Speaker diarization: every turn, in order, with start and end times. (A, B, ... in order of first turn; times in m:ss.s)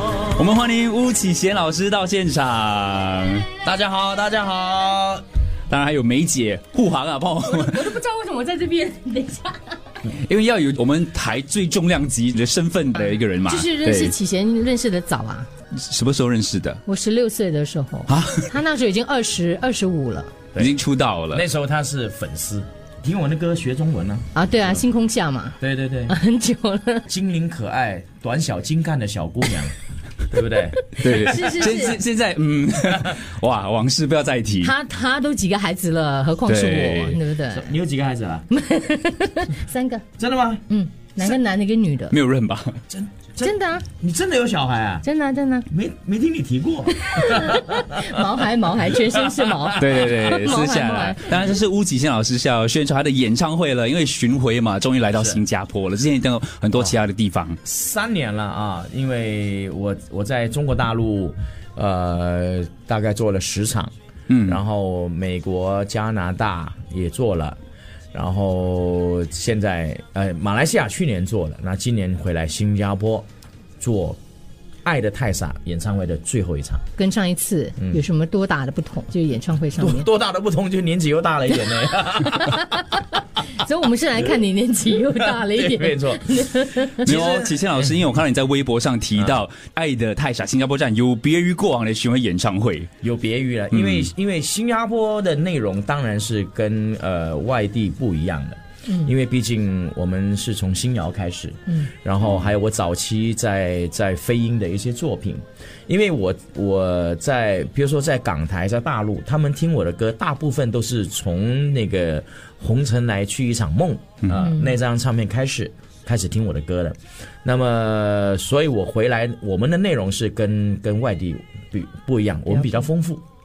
0:00.2-0:03.5 A
0:03.6-0:05.2 B
0:05.7-0:08.0 A
0:07.5-0:09.8 C
0:10.0-0:14.1 A
0:13.4-0:15.5 C
0:15.8-0:16.8 A
0:16.8-0:20.3 C
0:18.1-0:18.4 A
0:20.6-0:21.4 A
0:21.3-0:24.3 B
0:24.3-0:25.6 C
0:25.6-0:26.2 B
0:26.1-0:27.0 C
0:27.1-0:29.7 B
0:30.3-0:31.8 B
0:31.0-0:32.0 C
0:31.0-0:34.7 A
0:34.6-0:37.7 C
0:36.5-0:37.2 A
0:37.5-0:38.5 B
0:38.5-0:40.0 C
0:40.2-0:40.6 B
0:40.7-0:42.2 C
0:42.1-0:42.8 A
0:42.9-0:45.0 B
0:43.4-0:43.8 C
0:45.0-0:45.7 C
0:45.7-0:48.1 B
0:47.0-0:51.4 C
0:49.4-0:49.8 B
0:49.8-0:57.6 A
0:55.1-0:55.4 B
0:57.6-1:03.9 B
1:04.3-1:04.6 A
1:04.4-1:07.6 B
1:08.1-1:13.2 B
1:13.8-1:14.2 B
1:14.8-1:16.8 B
1:17.0-1:20.0 C
1:19.8-1:22.6 B
1:22.2-1:27.0 C
1:25.2-1:27.7 B
1:27.0-1:32.9 A
1:29.2-1:29.4 B
1:33.0-2:03.2 B
1:33.7-1:34.1 A
1:54.4-1:54.7 C